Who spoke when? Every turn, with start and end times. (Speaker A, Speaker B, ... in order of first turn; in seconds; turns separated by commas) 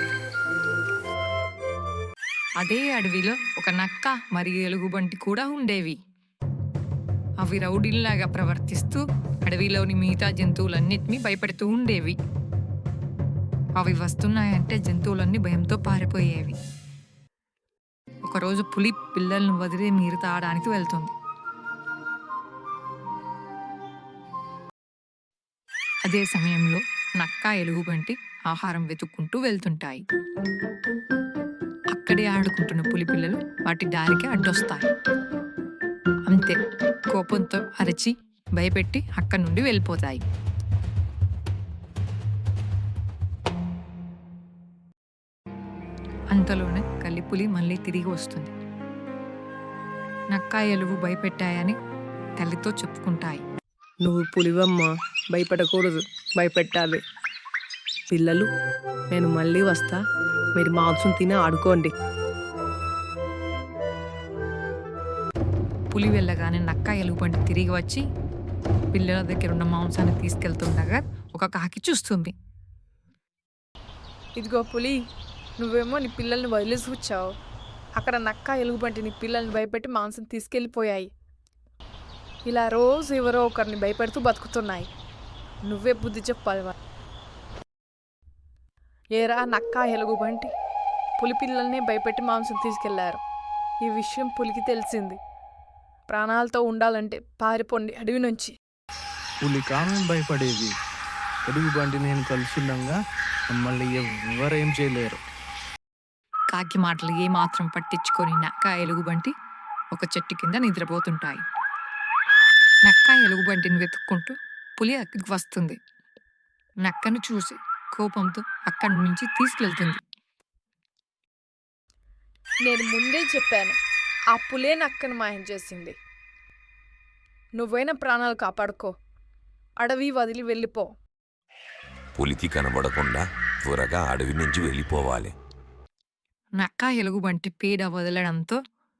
Speaker A: 2.6-6.0, Speaker A: 7.4-12.2, Speaker A: 13.8-16.6, Speaker A: 18.2-21.1, Speaker A: 26.0-30.0, Speaker A: 31.9-34.9, Speaker A: 36.2-36.6, Speaker A: 37.1-40.2, Speaker A: 46.3-48.5, Speaker A: 50.3-51.8, Speaker A: 52.4-53.4, Speaker B: 54.0-57.0, Speaker B: 58.1-58.5, Speaker B: 59.1-60.0, Speaker B: 60.6-61.9, Speaker A: 65.9-68.0, Speaker A: 68.9-72.3, Speaker C: 74.4-75.0, Speaker C: 75.6-77.2, Speaker C: 78.0-81.1, Speaker C: 82.5-84.9, Speaker C: 85.6-86.8, Speaker C: 89.2-90.5, Speaker C: 91.2-93.2, Speaker C: 93.8-95.2, Speaker C: 96.1-98.5, Speaker D: 99.4-100.7, Speaker D: 101.5-103.0, Speaker D: 103.5-105.2, Speaker A: 106.5-109.3, Speaker A: 109.9-111.4, Speaker A: 112.8-115.8, Speaker A: 116.8-120.0, Speaker C: 122.7-123.8, Speaker C: 124.3-126.0, Speaker C: 127.6-128.9, Speaker C: 129.8-130.9, Speaker E: 132.2-135.3, Speaker A: 136.6-138.6